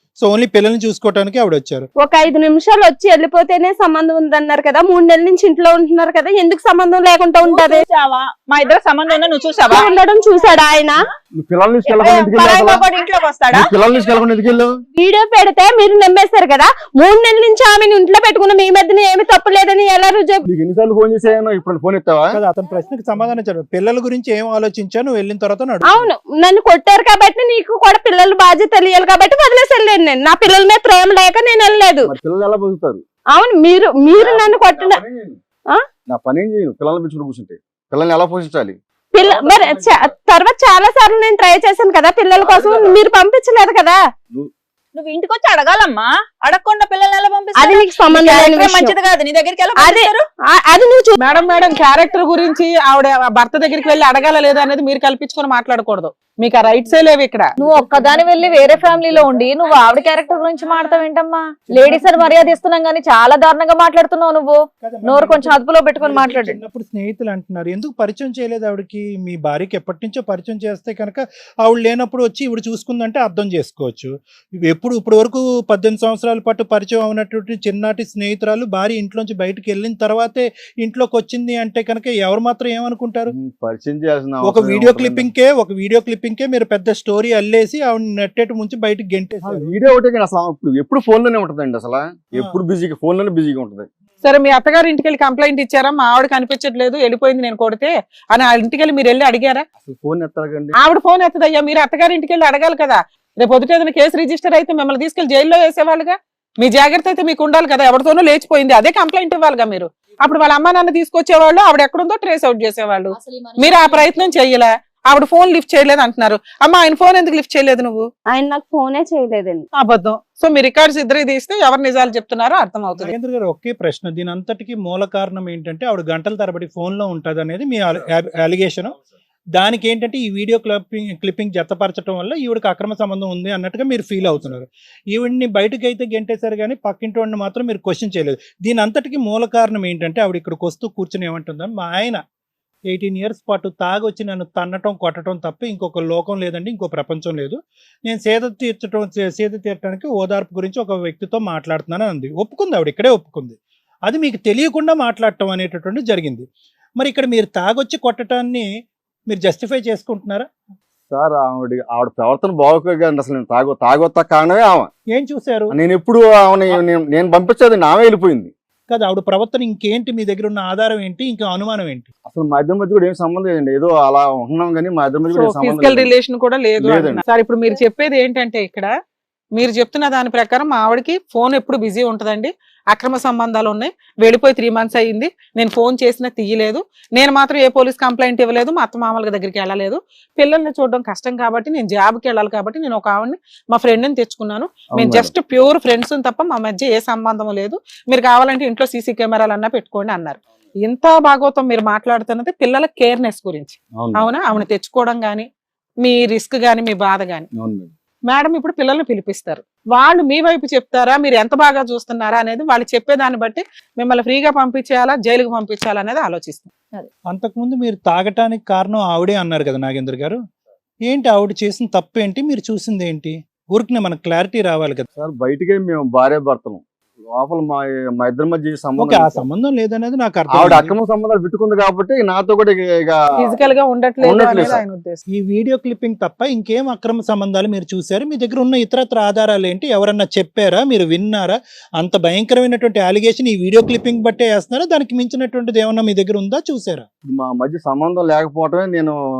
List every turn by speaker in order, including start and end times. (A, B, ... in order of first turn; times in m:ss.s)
0:00.2-0:01.9 A
0:02.0-0:07.8 B
0:07.4-0:09.9 C
0:09.7-0:11.0 B
0:11.4-0:12.8 D
0:11.9-0:13.6 C
0:13.5-0:14.8 D
0:14.9-0:20.4 B
0:20.5-0:22.4 D
0:22.3-0:26.0 A
0:25.9-0:32.1 B
0:32.0-0:33.0 D
0:33.3-0:35.0 B
0:34.0-0:35.4 D
0:36.1-0:40.1 D
0:39.1-0:44.0 B
0:42.4-0:43.0 D
0:44.9-0:50.2 C
0:47.5-0:49.0 B
0:49.8-0:51.2 B
0:51.2-0:57.5 E
0:57.6-1:06.6 F
1:01.7-1:02.3 A
1:04.8-1:23.3 A
1:23.3-1:25.3 D
1:24.4-1:29.7 A
1:29.4-1:33.9 D
1:34.2-1:39.6 E
1:39.8-1:40.7 D
1:40.8-1:58.1 E
1:53.1-1:54.4 F
1:58.3-1:59.6 B
1:59.8-2:03.1 E
2:03.0-2:08.9 A
2:09.6-2:22.2 A
2:22.9-2:36.4 A
2:37.0-2:38.7 A
2:39.3-2:40.5 A
2:41.1-2:44.9 D
2:45.1-2:45.7 A
2:45.7-2:48.5 D
2:48.9-2:52.1 A
2:52.3-2:56.1 D
2:55.3-2:58.9 E
2:56.8-2:57.2 D
2:59.6-3:25.5 E
3:14.9-3:15.3 D
3:24.0-3:24.3 D
3:26.0-3:27.5 E
3:27.6-3:27.9 D
3:28.3-3:36.7 E
3:37.3-3:40.4 A
3:41.1-3:45.1 A
3:45.2-3:49.4 D
3:49.0-3:50.9 A
3:50.5-3:53.5 D
3:53.4-3:55.2 E
3:54.2-3:54.8 D
3:55.3-4:07.1 A
4:07.2-4:09.2 D